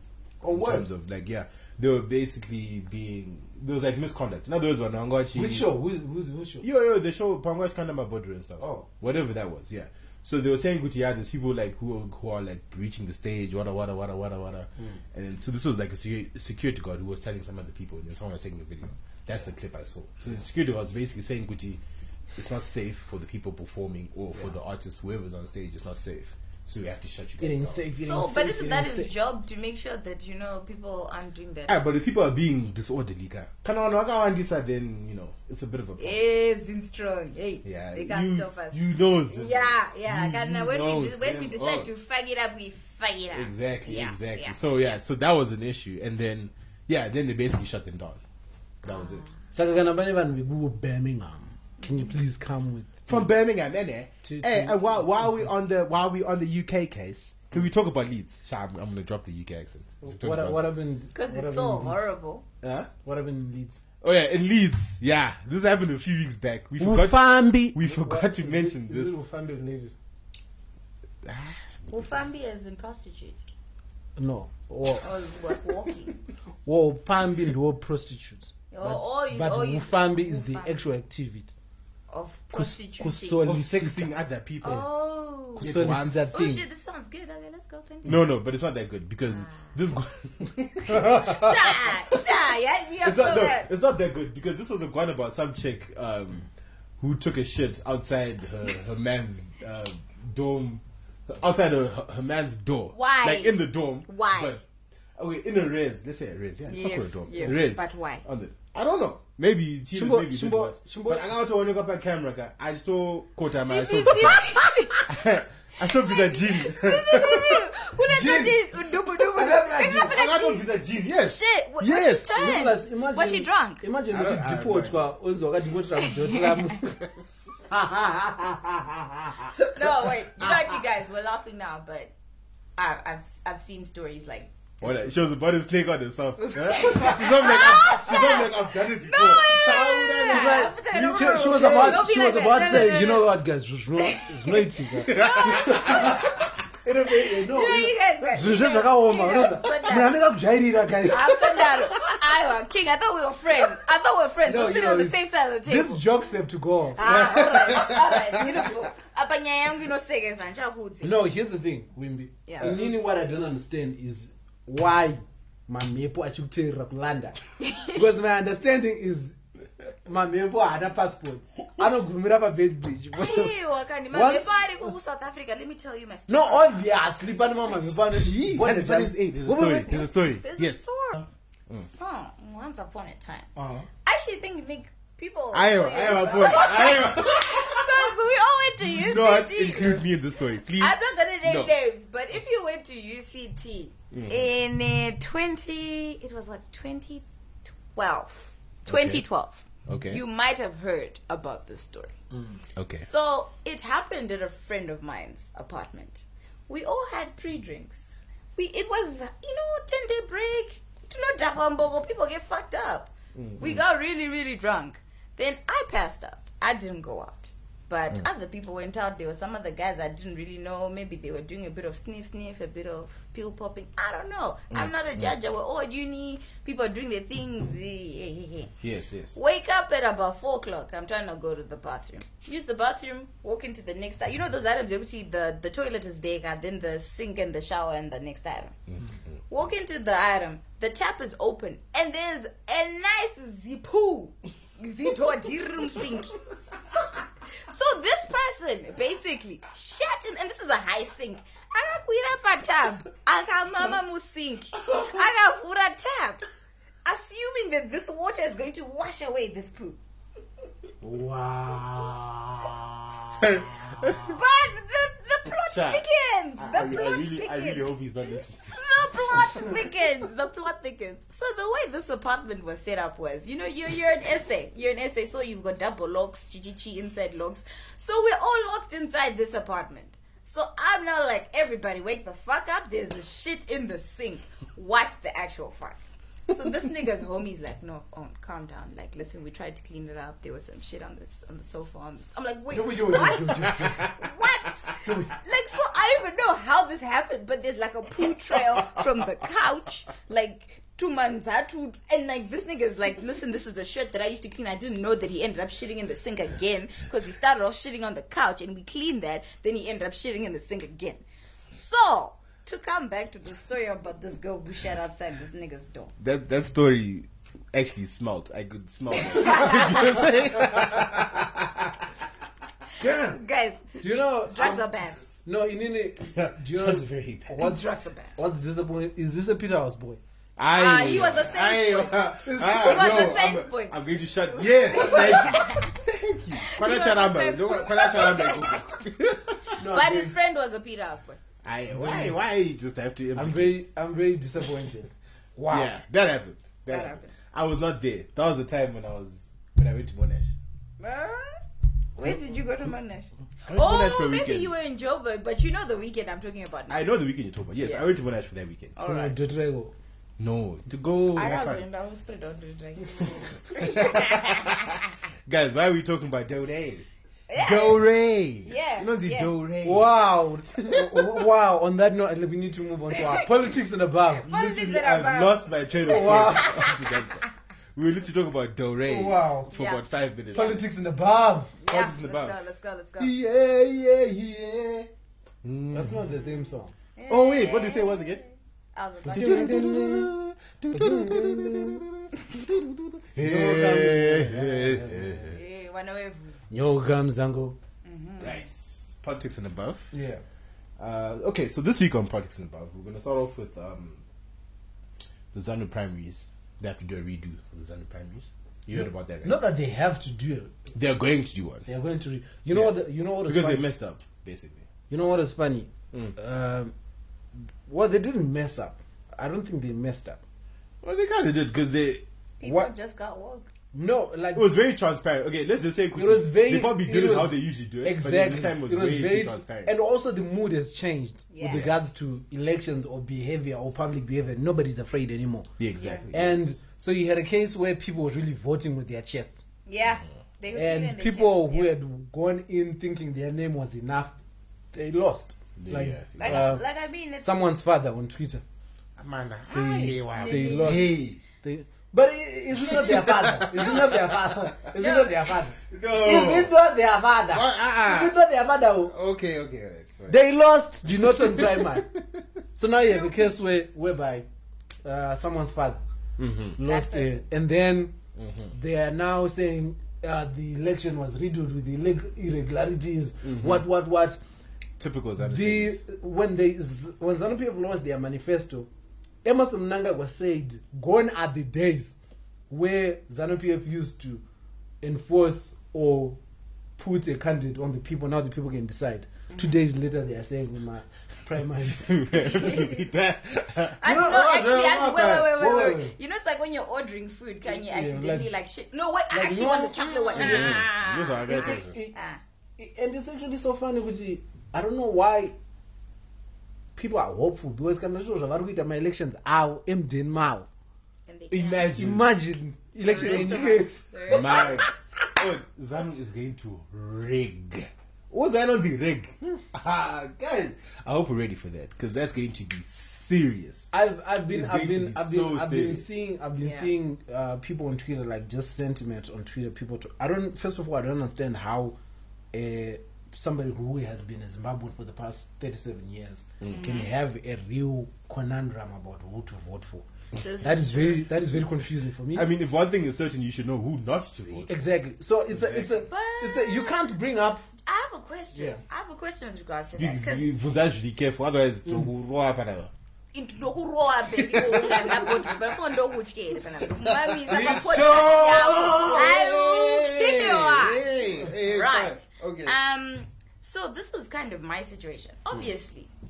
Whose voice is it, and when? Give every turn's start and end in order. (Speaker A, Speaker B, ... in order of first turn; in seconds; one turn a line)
Speaker A: 0.4-0.8
Speaker B: 0.5-5.7
Speaker A: 5.3-6.7
Speaker B: 6.6-21.8
Speaker A: 8.6-8.9
Speaker B: 22.4-27.8
Speaker A: 27.4-29.1
Speaker C: 28.0-31.8
Speaker B: 31.7-36.2
Speaker C: 36.0-38.8
Speaker B: 37.6-41.9
Speaker C: 39.3-44.6
Speaker B: 43.3-48.2
Speaker B: 48.8-49.2
Speaker C: 48.8-49.3
Speaker A: 49.5-53.3
Speaker B: 53.1-60.6
Speaker A: 54.2-55.5
Speaker A: 60.0-62.1
Speaker C: 61.1-62.4
Speaker B: 62.6-62.9
Speaker A: 63.0-63.8
Speaker B: 64.0-69.2
Speaker A: 66.8-69.9
Speaker B: 71.2-72.1
Speaker C: 71.9-73.4
Speaker A: 74.2-75.1
Speaker C: 75.0-76.2
Speaker A: 76.6-81.5
Speaker C: 78.7-80.7
Speaker C: 82.1-83.4
Speaker A: 82.5-84.1
Speaker B: 83.4-84.8
Speaker C: 84.6-88.2
Speaker B: 85.5-86.3
Speaker A: 85.6-86.6
Speaker B: 88.0-92.2
Speaker C: 89.3-89.7
Speaker C: 91.0-93.7
Speaker B: 93.0-96.5
Speaker B: 97.0-104.6
Speaker C: 102.9-104.6
Speaker B: 105.2-114.5
Speaker C: 106.7-108.2
Speaker A: 109.9-111.3
Speaker C: 113.5-115.0
Speaker B: 115.0-117.7
Speaker C: 115.8-123.8
Speaker A: 118.1-118.6
Speaker A: 119.1-120.1
Speaker B: 120.1-122.3
Speaker A: 122.2-127.0
Speaker B: 124.1-125.0
Speaker C: 126.0-126.7
Speaker A: 127.7-129.7
Speaker C: 129.7-132.1
Speaker C: 132.8-134.5
Speaker B: 134.8-142.1
Speaker A: 136.4-137.3
Speaker C: 136.6-143.3
Speaker A: 140.2-151.4
Speaker C: 144.0-146.4
Speaker B: 145.1-146.2
Speaker C: 147.4-150.2
Speaker C: 151.1-156.2
Speaker A: 154.4-157.4
Speaker C: 157.0-161.2
Speaker B: 157.0-158.5
Speaker A: 161.0-169.4
Speaker C: 162.5-162.9
Speaker C: 167.6-168.0
Speaker A: 170.0-173.5
Speaker C: 173.1-176.9
Speaker A: 174.1-174.7
Speaker A: 176.3-180.0
Speaker B: 178.1-181.8
Speaker C: 179.9-181.2
Speaker C: 181.8-183.5
Speaker A: 183.6-183.8
Speaker C: 184.0-190.0
Speaker B: 185.5-188.1
Speaker B: 188.8-191.7
Speaker C: 190.8-202.2
Speaker B: 194.1-194.5
Speaker B: 198.9-199.2
Speaker B: 199.9-200.2
Speaker B: 202.8-203.1
Speaker C: 203.0-228.7
Speaker B: 213.3-213.8
Speaker B: 224.7-225.3
Speaker B: 228.8-229.4
Speaker C: 229.3-238.7
Speaker C: 239.5-246.4
Speaker C: 247.6-256.5
Speaker C: 257.0-260.0
Speaker A: 261.0-264.1
Speaker B: 263.4-264.2
Speaker C: 264.1-267.9
Speaker B: 265.7-266.0
Speaker B: 266.6-269.7
Speaker C: 268.6-316.1
Speaker A: 292.7-294.1
Speaker A: 295.0-295.3
Speaker B: 316.2-322.1
Speaker C: 319.1-320.2
Speaker B: 323.0-323.4
Speaker C: 323.0-325.2
Speaker A: 324.0-330.2
Speaker B: 326.3-327.6
Speaker C: 327.6-328.3
Speaker B: 330.6-339.7
Speaker C: 330.7-336.0
Speaker A: 332.4-333.2
Speaker C: 336.6-338.9
Speaker A: 339.8-340.3
Speaker C: 339.8-341.4
Speaker B: 341.6-343.8
Speaker A: 341.9-342.4
Speaker A: 343.3-345.9
Speaker B: 345.7-350.5
Speaker C: 346.9-347.3
Speaker C: 351.0-351.6
Speaker C: 352.2-357.0
Speaker B: 353.6-354.7
Speaker B: 356.9-358.9
Speaker C: 357.8-358.1
Speaker C: 358.9-359.5
Speaker A: 359.0-359.9
Speaker B: 360.4-361.8
Speaker C: 361.3-365.1
Speaker B: 363.8-370.1
Speaker C: 367.5-368.1
Speaker C: 368.6-369.5
Speaker A: 369.8-374.5
Speaker C: 374.4-377.4
Speaker B: 374.5-377.4
Speaker A: 376.1-376.8
Speaker B: 377.9-380.8
Speaker A: 379.1-379.7
Speaker C: 379.7-380.0
Speaker A: 380.5-381.8
Speaker C: 381.8-383.3
Speaker B: 381.9-382.6
Speaker B: 383.2-385.1
Speaker B: 385.6-386.2
Speaker A: 385.9-386.9
Speaker C: 386.4-390.0
Speaker B: 387.3-388.4
Speaker A: 389.2-390.3
Speaker B: 389.3-395.6
Speaker A: 390.9-392.0
Speaker A: 393.4-395.5
Speaker C: 395.5-396.6
Speaker A: 396.7-397.8
Speaker C: 398.0-398.6
Speaker B: 398.4-400.1
Speaker A: 400.1-400.4
Speaker B: 401.0-404.2
Speaker B: 405.5-409.6
Speaker A: 409.0-410.8
Speaker B: 410.9-411.9
Speaker A: 411.9-413.8
Speaker B: 412.7-414.9
Speaker A: 415.1-416.9
Speaker A: 417.9-420.4
Speaker B: 421.0-422.2
Speaker C: 422.6-423.7
Speaker A: 422.6-422.9
Speaker A: 423.9-424.7
Speaker B: 424.5-429.9
Speaker A: 426.1-435.7
Speaker C: 431.5-431.9
Speaker B: 431.6-431.9
Speaker B: 435.8-436.6
Speaker C: 436.0-436.2
Speaker A: 436.3-439.6
Speaker C: 439.9-441.9
Speaker A: 440.7-444.4
Speaker A: 444.9-446.8
Speaker B: 445.8-446.7
Speaker C: 446.4-447.6
Speaker A: 447.4-448.6
Speaker B: 449.2-451.4
Speaker A: 449.7-459.1
Speaker C: 450.3-451.2
Speaker B: 452.7-454.6
Speaker C: 452.8-453.2
Speaker C: 453.7-454.1
Speaker C: 454.9-455.5
Speaker B: 455.9-456.8
Speaker B: 457.5-458.4
Speaker B: 459.1-460.4
Speaker A: 460.3-462.1
Speaker B: 461.1-462.4
Speaker A: 462.7-464.5
Speaker C: 463.0-463.6
Speaker A: 465.0-466.0
Speaker B: 466.4-466.8
Speaker A: 466.8-468.1
Speaker C: 466.9-467.4
Speaker B: 468.4-468.7
Speaker A: 468.7-474.4
Speaker B: 473.4-473.8
Speaker B: 475.0-476.0
Speaker A: 475.4-478.9
Speaker A: 479.4-482.1
Speaker A: 482.7-484.4
Speaker A: 485.0-486.4
Speaker A: 487.0-492.9
Speaker C: 489.5-489.8
Speaker B: 492.0-495.5
Speaker C: 492.6-493.0
Speaker C: 494.0-502.4
Speaker A: 494.0-496.1
Speaker A: 497.6-498.5
Speaker A: 499.3-500.9
Speaker B: 500.3-501.9
Speaker A: 501.5-502.1
Speaker A: 502.8-505.5
Speaker A: 506.9-510.7
Speaker C: 511.3-511.9
Speaker B: 511.5-512.3
Speaker A: 511.9-514.9
Speaker C: 513.0-514.9
Speaker B: 513.2-513.7
Speaker B: 514.3-523.9
Speaker A: 523.9-532.0
Speaker B: 524.5-526.1
Speaker C: 526.6-526.9
Speaker A: 532.5-540.0
Speaker B: 536.6-536.9
Speaker C: 536.7-537.1
Speaker C: 540.4-541.2
Speaker A: 540.6-542.5
Speaker B: 542.3-544.8
Speaker A: 544.6-547.7
Speaker B: 545.5-546.0
Speaker C: 546.1-547.0
Speaker C: 547.9-550.5
Speaker A: 548.5-548.8
Speaker B: 549.9-552.9
Speaker C: 553.3-566.1
Speaker B: 554.4-555.5
Speaker B: 557.1-562.8
Speaker A: 557.5-559.3